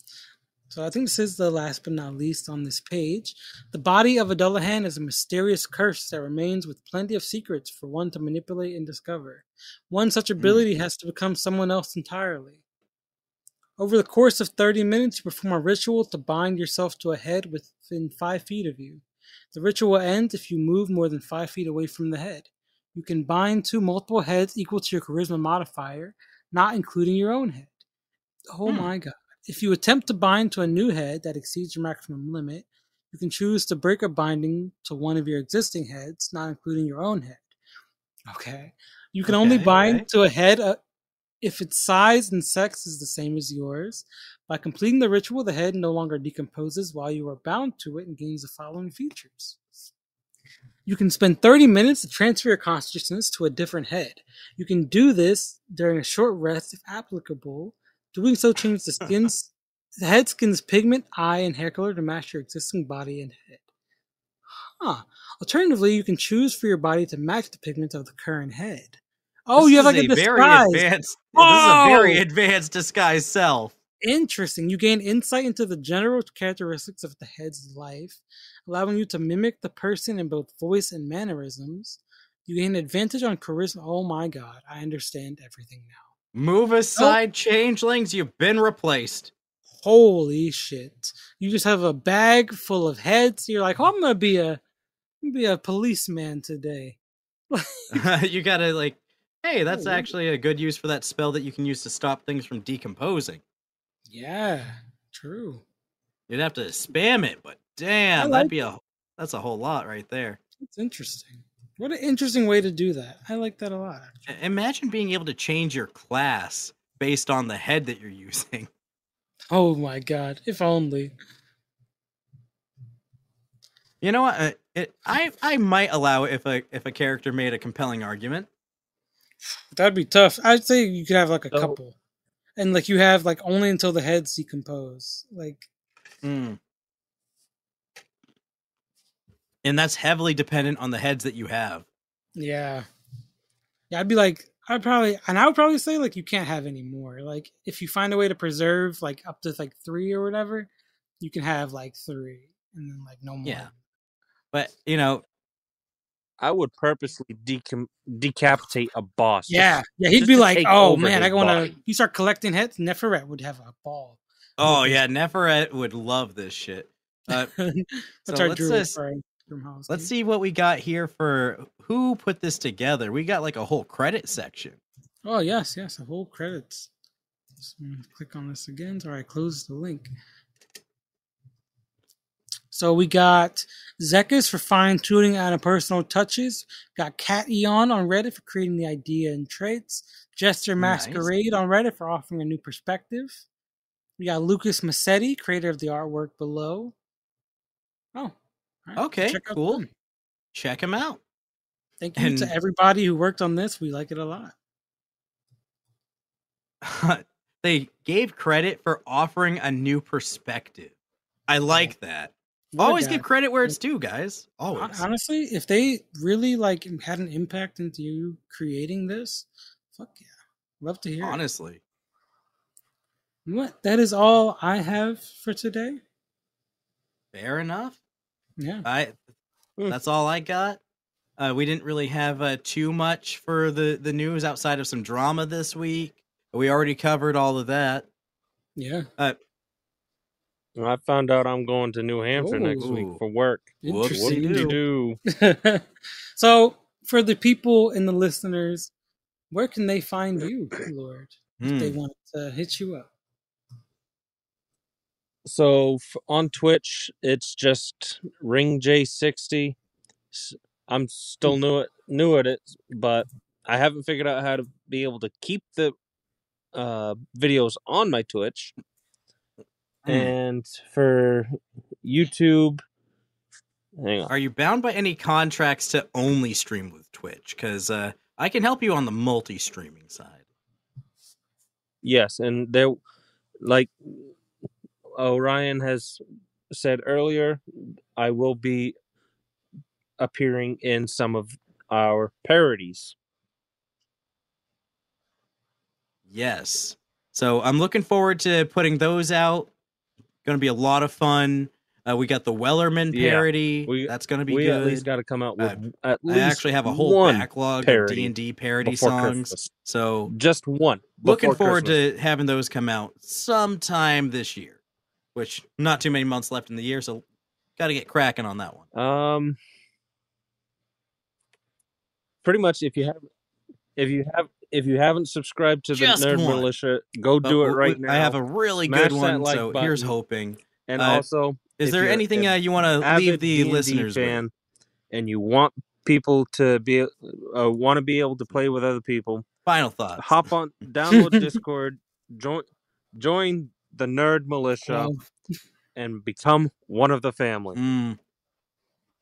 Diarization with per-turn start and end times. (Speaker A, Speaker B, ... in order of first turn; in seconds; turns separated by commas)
Speaker A: 0.7-12.6, Speaker B: 10.4-10.7, Speaker A: 13.8-27.8, Speaker A: 28.5-37.5, Speaker A: 38.3-40.8, Speaker B: 39.3-40.0, Speaker A: 41.4-49.9, Speaker A: 50.9-63.6, Speaker A: 64.8-69.0, Speaker A: 69.5-72.2, Speaker B: 69.6-73.8, Speaker A: 74.0-86.0, Speaker B: 86.3-89.3, Speaker A: 89.8-94.6, Speaker A: 95.2-97.0, Speaker A: 97.5-98.0, Speaker B: 97.9-103.4, Speaker A: 99.7-100.1, Speaker A: 104.1-105.6, Speaker B: 106.3-110.4, Speaker A: 108.2-108.6, Speaker A: 110.6-114.2, Speaker B: 114.3-118.7, Speaker A: 119.5-121.1, Speaker B: 124.0-128.5, Speaker A: 129.7-132.0, Speaker C: 131.5-131.8, Speaker A: 132.6-135.7, Speaker B: 136.2-136.6, Speaker B: 139.6-141.8, Speaker A: 142.4-142.9, Speaker A: 143.9-153.7, Speaker B: 153.4-153.7, Speaker B: 154.5-155.2, Speaker C: 156.4-161.7, Speaker A: 159.5-165.0, Speaker B: 164.6-167.5, Speaker A: 167.3-170.1, Speaker B: 168.3-168.9, Speaker B: 169.9-174.8, Speaker A: 175.2-176.9, Speaker A: 177.6-180.1, Speaker A: 182.7-193.4, Speaker B: 190.8-191.3, Speaker A: 194.2-196.9, Speaker A: 198.2-199.9, Speaker B: 199.0-199.8, Speaker B: 200.5-201.2, Speaker A: 202.0-204.6, Speaker B: 202.2-202.5, Speaker B: 206.8-210.9, Speaker B: 211.5-215.1, Speaker A: 212.7-213.8, Speaker A: 214.7-220.3, Speaker A: 220.8-221.4, Speaker B: 221.2-221.8, Speaker A: 223.5-226.0, Speaker B: 227.3-228.0, Speaker A: 228.6-228.9, Speaker B: 228.8-229.2, Speaker B: 229.9-230.8, Speaker B: 231.4-238.1, Speaker A: 238.8-239.1, Speaker C: 240.8-245.2, Speaker A: 242.3-242.9, Speaker B: 242.8-243.2, Speaker A: 243.8-244.8, Speaker B: 243.8-244.8, Speaker A: 245.3-245.8, Speaker A: 246.4-248.9, Speaker A: 249.5-253.1, Speaker B: 251.6-252.0, Speaker C: 255.4-259.8, Speaker C: 260.3-265.9, Speaker C: 266.8-268.8, Speaker B: 270.1-270.3, Speaker C: 270.1-272.8, Speaker C: 274.0-274.3, Speaker B: 274.3-280.4, Speaker C: 282.0-283.0, Speaker C: 283.6-284.4, Speaker C: 285.2-286.2, Speaker C: 286.7-288.9, Speaker C: 290.2-293.1, Speaker B: 296.3-299.7, Speaker B: 300.4-305.1, Speaker C: 303.1-309.7, Speaker B: 305.6-310.3, Speaker C: 310.3-311.9, Speaker B: 311.2-314.8, Speaker B: 315.4-317.2, Speaker B: 317.8-318.9, Speaker C: 318.9-319.6, Speaker C: 322.4-323.3, Speaker C: 324.0-330.1, Speaker B: 325.9-326.7, Speaker B: 327.4-331.2, Speaker C: 330.9-334.5, Speaker B: 331.8-334.4, Speaker C: 335.1-339.4, Speaker B: 339.7-340.3, Speaker C: 340.2-345.1, Speaker A: 344.9-345.2, Speaker C: 346.0-347.8, Speaker B: 347.8-348.2